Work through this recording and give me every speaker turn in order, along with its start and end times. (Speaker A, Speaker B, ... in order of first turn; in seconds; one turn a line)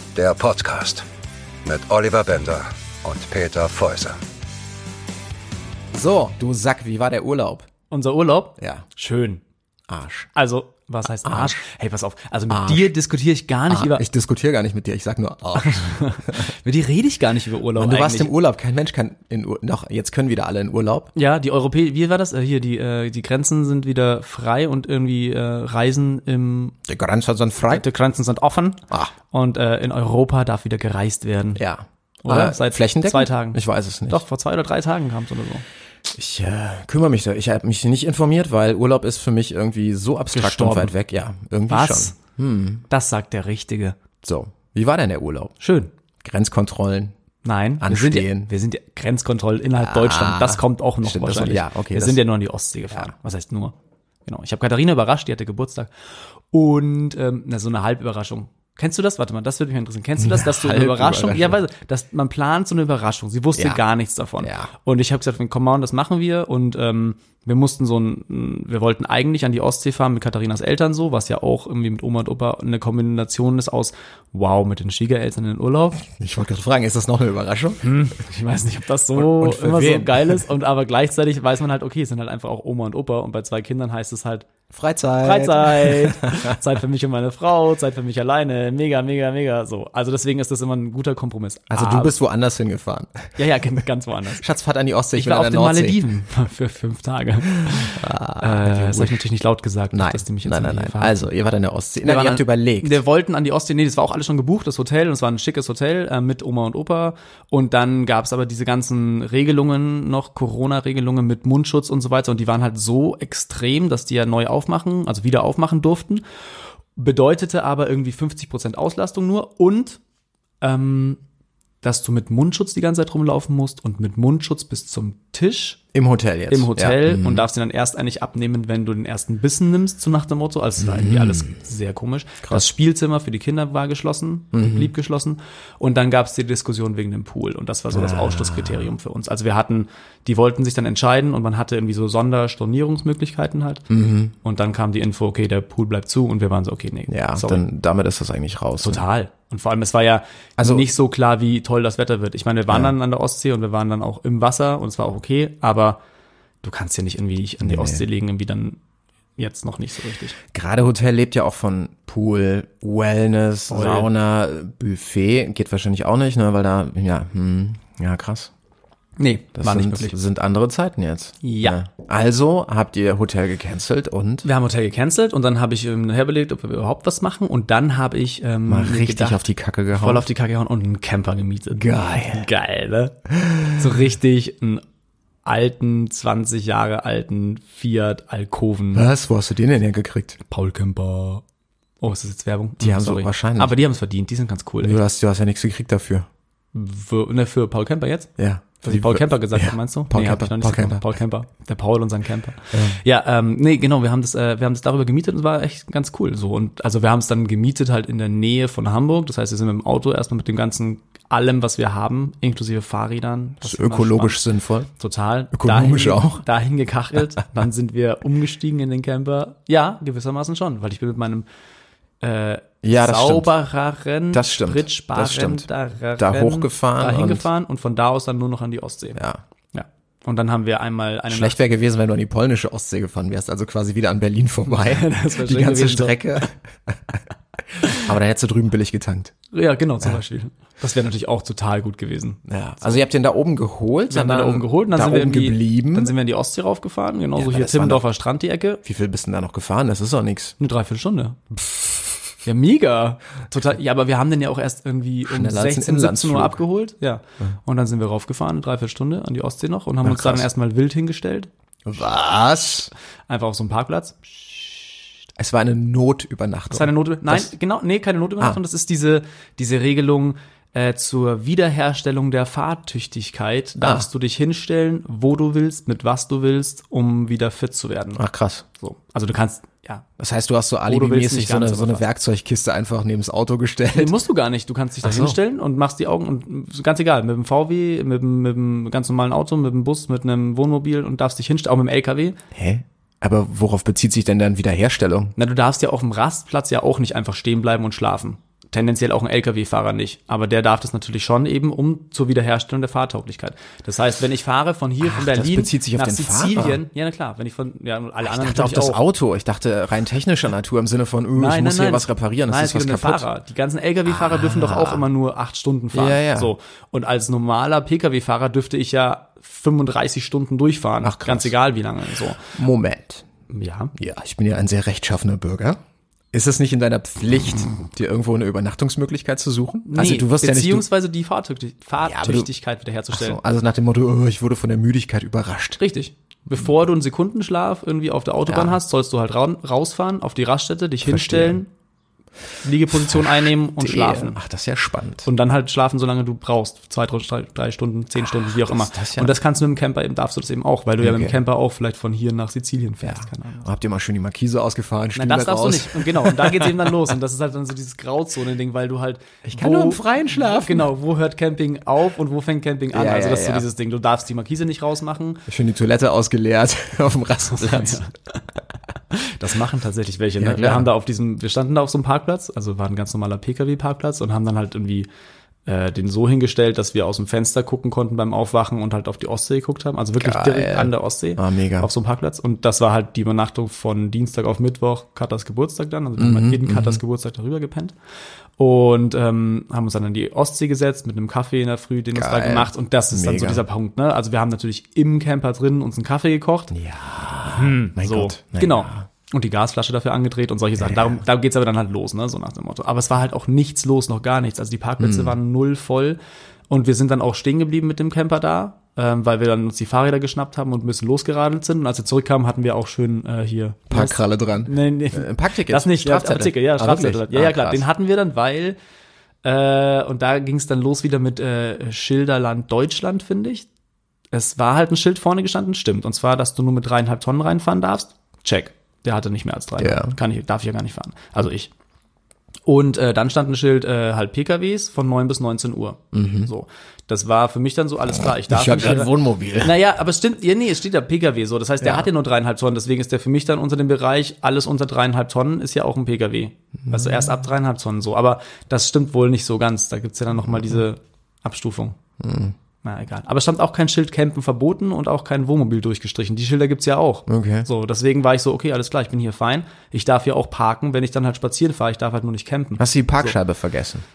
Speaker A: 0.1-1.0
Speaker A: 1.6-4.2
Speaker B: 5.9-7.7
Speaker C: 7.9-9.4
Speaker B: 8.6-8.8
Speaker B: 9.9-10.3
Speaker C: 10.3-14.1
Speaker B: 11.2-11.7
Speaker B: 12.5-12.9
Speaker B: 13.7-16.5
Speaker C: 15.6-18.3
Speaker B: 17.8-21.1
Speaker C: 21.1-26.8
Speaker B: 26.9-27.9
Speaker C: 27.6-31.6
Speaker B: 31.6-34.2
Speaker C: 32.2-35.6
Speaker B: 36.1-42.9
Speaker C: 40.3-40.9
Speaker C: 41.7-42.1
Speaker C: 42.9-44.0
Speaker B: 44.2-45.6
Speaker C: 45.6-45.9
Speaker B: 46.2-47.1
Speaker C: 47.4-53.8
Speaker B: 47.8-48.5
Speaker B: 49.8-52.2
Speaker C: 54.3-76.0
Speaker B: 60.2-61.6
Speaker B: 63.6-63.8
Speaker B: 64.4-64.7
Speaker B: 76.0-77.8
Speaker C: 77.8-84.5
Speaker B: 79.1-80.4
Speaker B: 84.7-86.6
Speaker C: 85.2-92.1
Speaker B: 91.7-93.3
Speaker C: 93.4-94.4
Speaker B: 94.4-96.0
Speaker C: 95.2-101.2
Speaker B: 97.7-99.2
Speaker B: 99.9-103.0
Speaker C: 102.0-116.2
Speaker C: 117.0-120.0
Speaker C: 120.6-121.2
Speaker C: 121.8-125.8
Speaker B: 125.9-127.5
Speaker C: 126.5-143.9
Speaker B: 130.8-131.6
Speaker B: 134.5-134.9
Speaker B: 137.9-138.9
Speaker B: 143.9-144.3
Speaker C: 144.4-147.6
Speaker B: 147.1-149.0
Speaker C: 148.8-156.0
Speaker B: 150.6-150.9
Speaker C: 156.6-158.8
Speaker B: 157.6-158.1
Speaker C: 159.4-160.4
Speaker B: 160.5-168.5
Speaker C: 163.7-164.1
Speaker C: 169.2-170.1
Speaker B: 169.6-174.5
Speaker C: 171.4-171.8
Speaker C: 174.4-179.4
Speaker B: 178.7-180.2
Speaker C: 179.9-183.2
Speaker B: 181.7-182.5
Speaker B: 183.4-183.7
Speaker C: 183.7-184.8
Speaker C: 185.4-189.1
Speaker B: 188.9-190.4
Speaker C: 190.5-191.4
Speaker C: 192.0-195.0
Speaker B: 192.8-193.8
Speaker B: 194.8-196.3
Speaker C: 196.7-198.3
Speaker B: 198.4-201.0
Speaker C: 198.8-214.4
Speaker B: 202.7-203.0
Speaker B: 213.6-214.9
Speaker C: 215.0-221.5
Speaker B: 215.5-216.4
Speaker C: 222.2-229.2
Speaker B: 222.8-223.5
Speaker B: 224.3-227.5
Speaker B: 229.2-229.4
Speaker C: 229.7-231.6
Speaker B: 231.3-239.3
Speaker C: 234.7-236.5
Speaker C: 239.5-243.0
Speaker B: 242.5-246.1
Speaker C: 244.1-248.8
Speaker B: 247.4-248.1
Speaker B: 248.8-250.6
Speaker C: 250.6-251.5
Speaker C: 252.4-261.5
Speaker B: 255.3-256.6
Speaker B: 260.0-260.5
Speaker B: 261.9-262.9
Speaker C: 263.3-264.8
Speaker B: 265.4-267.5
Speaker C: 266.7-278.2
Speaker B: 273.8-274.1
Speaker B: 278.2-278.6
Speaker C: 278.7-280.1
Speaker B: 280.2-284.1
Speaker C: 280.9-282.1
Speaker C: 283.9-292.4
Speaker B: 285.0-285.4
Speaker B: 292.5-295.3
Speaker C: 295.4-309.0
Speaker B: 305.0-306.8
Speaker B: 308.2-313.3
Speaker C: 311.4-322.4
Speaker B: 314.1-315.1
Speaker B: 315.9-316.5
Speaker B: 321.0-321.6
Speaker B: 322.5-323.3
Speaker C: 323.5-323.9
Speaker B: 323.9-325.8
Speaker B: 326.3-330.9
Speaker C: 329.9-333.4
Speaker B: 332.0-332.5
Speaker B: 333.1-335.8
Speaker C: 335.8-341.7
Speaker B: 338.5-338.8
Speaker B: 341.0-341.6
Speaker C: 342.6-344.4
Speaker B: 342.9-345.3
Speaker C: 345.2-353.7
Speaker B: 348.2-349.4
Speaker B: 351.0-351.4
Speaker B: 353.0-356.9
Speaker C: 355.2-365.4
Speaker B: 359.4-360.9
Speaker B: 362.9-363.7
Speaker B: 365.5-368.0
Speaker C: 367.5-368.4
Speaker C: 369.1-375.1
Speaker B: 370.4-370.9
Speaker C: 375.7-387.9
Speaker B: 380.2-381.9
Speaker B: 386.2-387.0
Speaker C: 388.6-396.7
Speaker B: 392.1-393.6
Speaker B: 396.7-399.1
Speaker C: 397.5-406.2
Speaker B: 400.8-401.2
Speaker B: 405.0-405.4
Speaker C: 406.7-418.8
Speaker B: 413.9-417.9
Speaker C: 419.4-423.7
Speaker C: 424.3-431.7
Speaker B: 429.8-430.1
Speaker C: 432.7-452.0
Speaker B: 436.1-436.5
Speaker B: 438.4-439.8
Speaker B: 441.8-442.1
Speaker B: 446.9-447.3
Speaker B: 450.5-450.8
Speaker B: 452.2-452.6
Speaker C: 452.8-463.4
Speaker B: 457.3-457.7
Speaker B: 462.8-464.0